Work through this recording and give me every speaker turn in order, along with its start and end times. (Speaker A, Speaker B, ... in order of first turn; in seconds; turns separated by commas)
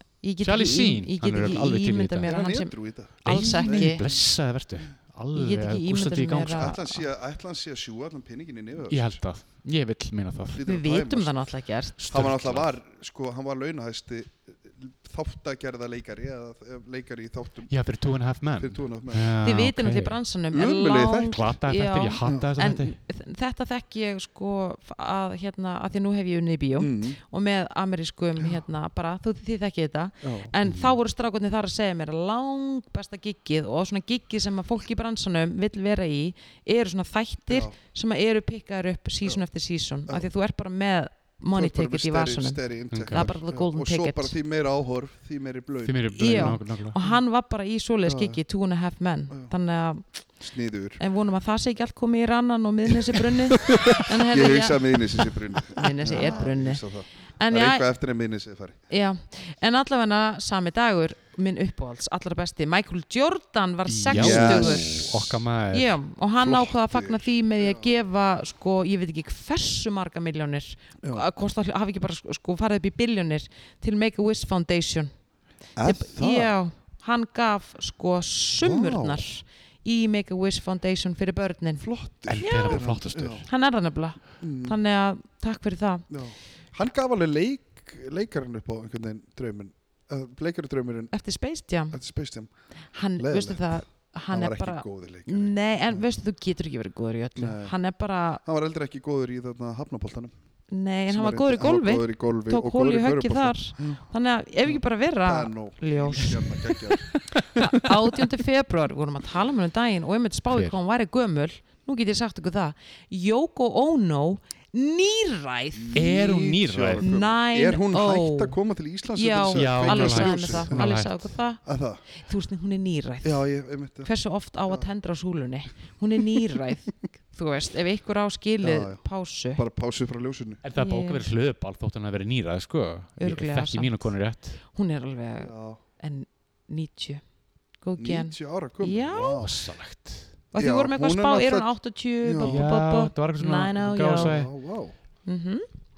Speaker A: 0.2-4.1, Speaker B: 0.4-2.5, Speaker C: 2.3-4.2, Speaker B: 3.2-6.7, Speaker A: 5.3-7.0, Speaker C: 6.5-9.2, Speaker B: 8.9-10.6, Speaker C: 10.5-11.5, Speaker A: 10.6-12.0, Speaker B: 12.0-12.7, Speaker C: 12.1-17.7, Speaker B: 17.7-20.2, Speaker C: 18.6-19.3, Speaker A: 19.4-44.3, Speaker C: 20.5-21.5, Speaker B: 21.3-23.0, Speaker C: 22.2-22.5, Speaker C: 26.8-27.2, Speaker C: 30.2-30.6, Speaker C: 37.5-37.8, Speaker C: 41.5-47.2, Speaker B: 42.9-43.3, Speaker B: 45.8-47.0, Speaker A: 46.1-50.1, Speaker C: 48.0-48.4, Speaker C: 50.4-51.0, Speaker A: 51.0-55.0, Speaker C: 52.9-58.8, Speaker A: 55.7-56.8, Speaker A: 57.4-57.9, Speaker A: 58.9-65.0, Speaker B: 63.9-66.0, Speaker C: 64.1-65.4, Speaker A: 65.7-75.1, Speaker C: 66.4-67.9, Speaker C: 75.8-76.5, Speaker A: 75.8-81.8, Speaker C: 78.6-79.3, Speaker C: 81.8-83.5, Speaker B: 82.3-83.5, Speaker A: 82.4-82.8, Speaker A: 83.5-86.1, Speaker C: 84.4-84.8, Speaker C: 86.1-91.1, Speaker A: 91.1-92.0, Speaker C: 91.9-92.5, Speaker A: 92.9-98.4, Speaker C: 93.2-93.8, Speaker C: 94.3-96.0, Speaker C: 97.4-97.7, Speaker C: 98.4-100.3, Speaker A: 100.7-106.4, Speaker C: 101.1-104.0, Speaker C: 104.7-107.8, Speaker B: 106.9-107.9, Speaker A: 107.6-116.2, Speaker C: 115.7-120.8, Speaker B: 115.9-117.1, Speaker A: 117.0-118.6, Speaker A: 119.1-121.6, Speaker B: 119.5-121.3, Speaker C: 121.6-122.0, Speaker A: 122.2-123.5, Speaker C: 123.2-124.1, Speaker A: 124.0-129.6, Speaker C: 128.6-129.0, Speaker C: 129.6-130.6, Speaker B: 130.6-134.6, Speaker A: 130.8-131.3, Speaker A: 133.2-134.1, Speaker A: 134.7-137.2, Speaker C: 135.4-135.8, Speaker A: 137.8-139.5, Speaker C: 138.0-139.5, Speaker B: 139.4-140.3, Speaker A: 140.5-144.3, Speaker C: 140.6-141.7, Speaker C: 142.2-142.6, Speaker B: 142.4-144.5, Speaker C: 144.2-144.9, Speaker A: 145.2-145.7